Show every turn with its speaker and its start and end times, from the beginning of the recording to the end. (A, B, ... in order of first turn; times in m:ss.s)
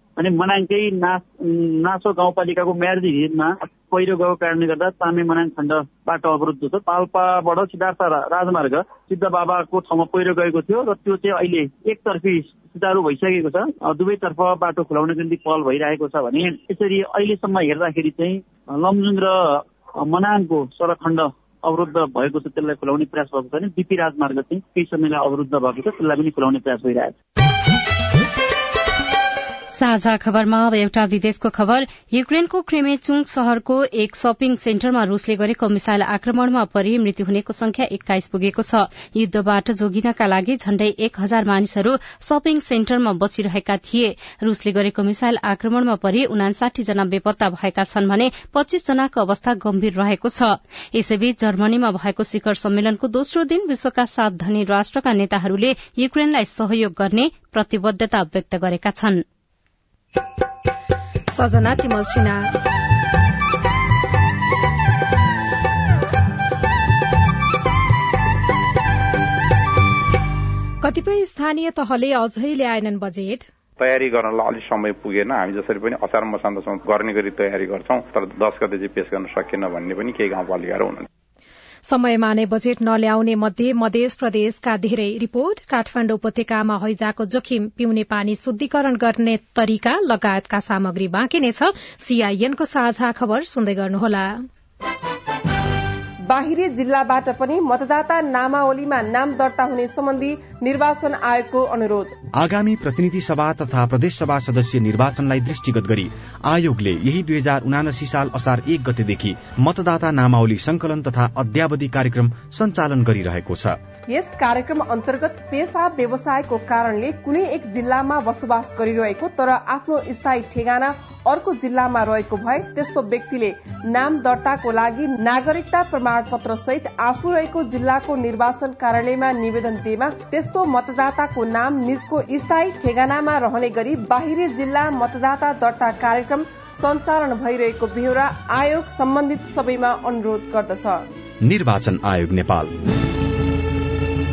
0:00.2-0:27.1 A
0:29.7-0:59.2 B
1:01.3-1:02.5 C
1:10.8-1:13.4 C
1:13.8-1:21.1 D
1:21.9-1:34.4 C
1:36.3-1:42.2 E
1:42.3-1:53.8 F
1:54.1-2:21.0 E
2:21.4-2:22.7 F